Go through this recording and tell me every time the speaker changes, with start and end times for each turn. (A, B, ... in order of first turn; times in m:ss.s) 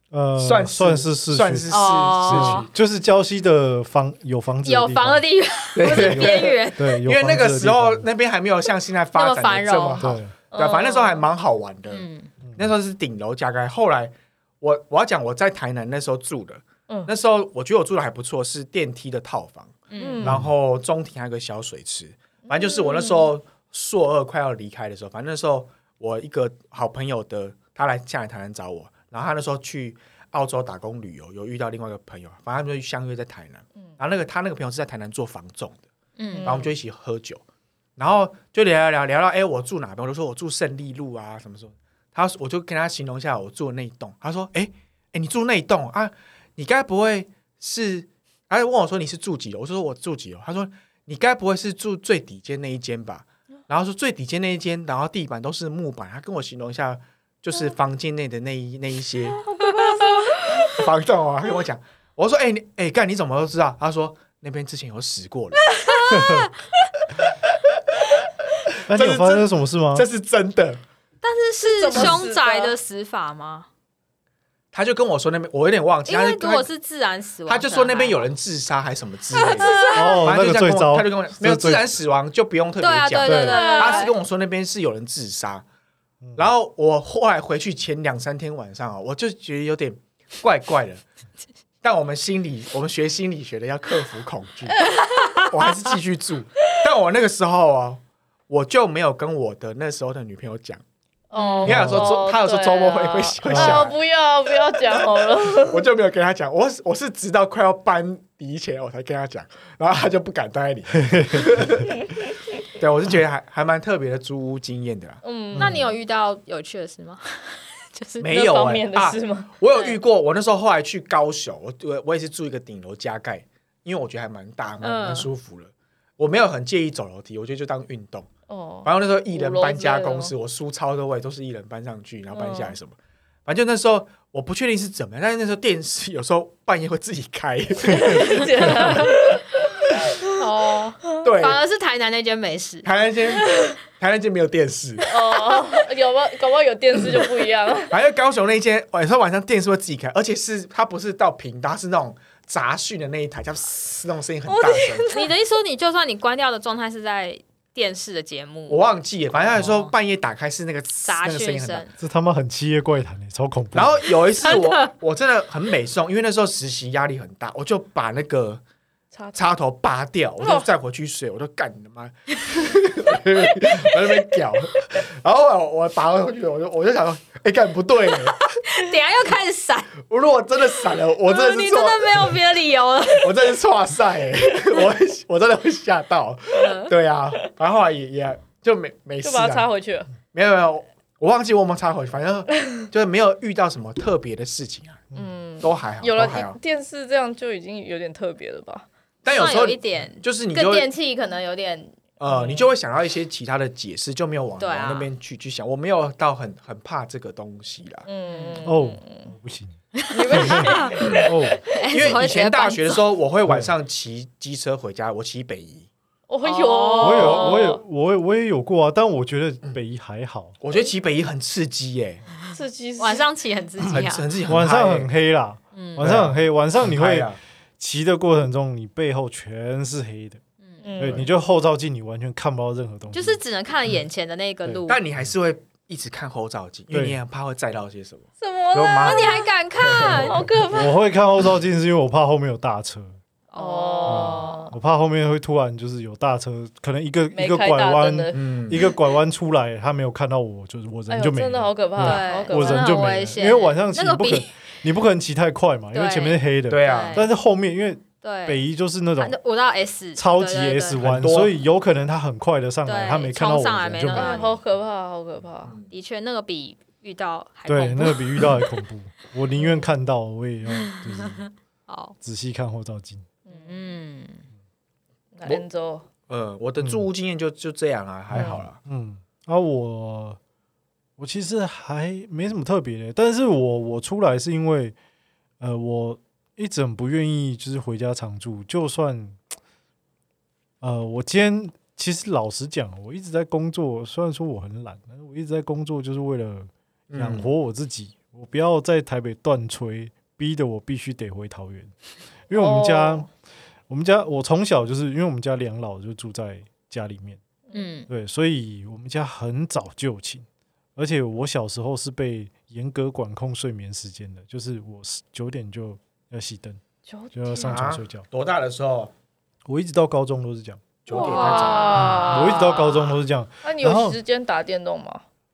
0:00.1-0:01.7 A
0:00.4-0:02.7 B
0:01.7-0:02.7 C
0:02.2-0:05.2 A
0:04.6-0:07.0 C
0:05.8-0:35.8 B
0:05.9-0:08.1 A
0:09.2-0:10.1 C
0:10.0-0:10.3 A
0:10.5-0:11.2 D
0:11.9-0:12.3 C
0:12.4-0:12.7 A
0:19.9-0:20.2 C
0:20.0-0:20.4 D
0:20.2-0:20.5 A
0:22.5-0:23.3 D
0:36.2-0:36.5 C
0:36.3-0:36.7 D
0:36.4-0:37.4 B
0:38.0-0:59.4 B
0:59.4-1:00.8 D
0:59.7-1:00.7 C
1:00.7-1:05.7 B
1:05.8-1:06.3 D
1:05.9-1:06.5 C
1:06.1-1:06.5 A
1:08.9-1:10.1 A
1:08.9-1:10.8 B
1:11.2-1:13.7 C
1:11.6-1:12.8 D
1:14.7-1:16.7 B
1:16.1-1:18.2 C
1:17.5-1:25.6 B
1:19.4-1:20.1 C
1:19.4-1:20.2 D
1:19.9-1:21.9 A
1:22.8-1:24.1 C
1:23.2-1:23.6 A
1:23.5-1:24.1 D
1:26.4-1:31.0 B
1:31.8-1:34.8 B
1:34.8-1:35.4 D
1:35.4-1:40.8 B
1:41.3-1:45.9 D
1:41.4-1:41.8 C
1:41.6-1:42.1 A
1:41.7-1:44.0 B
1:43.5-1:43.8 A
1:45.5-1:51.9 B
1:51.1-1:51.5 A
1:52.8-1:55.2 B
1:55.2-1:55.8 D
1:55.6-1:55.9 A
1:55.6-1:58.3 C
1:58.2-2:08.3 B
1:58.3-1:59.5 D
2:04.8-2:05.3 C
2:08.5-2:10.3 D
2:08.8-2:19.0 B
2:12.3-2:12.8 D
2:17.9-2:19.5 D
2:18.8-2:19.1 C
2:20.2-2:20.9 D
2:20.3-2:22.9 C
2:21.2-2:21.6 B
2:22.8-2:25.0 B
2:25.0-2:27.9 D
2:27.9-2:35.1 B
2:34.5-2:35.3 D
2:35.1-2:38.8 C
2:38.7-2:41.9 B
2:39.4-2:39.9 C
2:41.0-2:41.9 C
2:42.0-2:44.0 A
2:43.7-2:48.6 B
2:44.4-2:44.8 C
2:49.1-2:49.4 D
2:49.3-2:58.5 B
2:50.4-2:50.7 D
2:58.6-3:00.0 C
3:00.0-3:02.4 B
3:01.0-3:03.5 C
3:03.2-3:09.7 B
3:06.5-3:06.9 C
3:09.2-3:10.1 D
3:10.3-3:15.1 B
3:15.2-3:18.9 D
3:15.6-3:16.6 B
3:19.2-3:20.9 B
3:19.3-3:22.0 C
3:22.2-3:28.1 B
3:22.3-3:22.7 D
3:24.6-3:25.1 C
3:28.1-3:29.3 D
3:28.3-3:28.7 C
3:28.6-3:29.8 A
3:30.0-3:33.0 C
3:30.1-3:31.8 D
3:30.3-3:31.6 A
3:31.9-3:35.9 B
3:33.5-3:33.7 A
3:36.3-3:37.8 D
3:36.4-3:37.6 C
3:37.0-3:40.6 A
3:40.6-3:42.2 B
3:42.4-3:44.3 C
3:42.5-3:43.3 D
3:43.9-3:45.1 B
3:44.5-3:50.4 A
3:45.7-3:46.0 C
3:46.0-3:47.4 B
3:50.6-3:50.9 C
3:50.8-3:51.3 D
3:51.0-3:53.4 A
3:51.0-3:51.3 B
3:53.1-3:55.0 C
3:54.9-4:00.4 B
3:56.9-3:57.2 A
3:58.4-3:59.5 D
3:59.0-4:00.4 C
4:00.1-4:01.0 D
4:00.7-4:03.2 A
4:03.5-4:04.7 C
4:03.6-4:04.8 D
4:04.0-4:19.4 A
4:07.3-4:08.9 D
4:08.3-4:08.8 B
4:11.1-4:13.2 D
4:12.0-4:14.5 C
4:15.9-4:17.3 C
4:16.7-4:17.2 B
4:18.2-4:18.6 C
4:19.2-4:21.0 C
4:20.2-4:24.5 A
4:21.0-4:21.6 B
4:22.8-4:24.6 C
4:24.1-4:25.8 D
4:25.9-4:28.8 C
4:27.7-4:31.4 A
4:30.7-4:32.2 C
4:32.2-4:33.3 A
4:33.5-4:33.9 D
4:33.5-4:34.4 C
4:35.4-4:36.1 D
4:36.3-4:38.8 B
4:38.3-4:40.4 A
4:41.2-4:45.0 A
4:45.6-4:49.4 A
4:50.8-5:01.9 A
4:57.1-4:57.5 B
5:02.5-5:03.3 A
5:02.5-5:03.3 D
5:03.9-5:07.4 A
5:07.7-5:08.1 C
5:08.1-5:16.8 A
5:17.1-5:17.8 D
5:17.3-5:18.2 A
5:17.7-5:19.1 B
5:19.7-5:20.8 A
5:21.0-5:22.1 B
5:21.1-5:23.0 D
5:21.1-5:23.2 C
5:22.0-5:24.2 A
5:23.6-5:25.2 D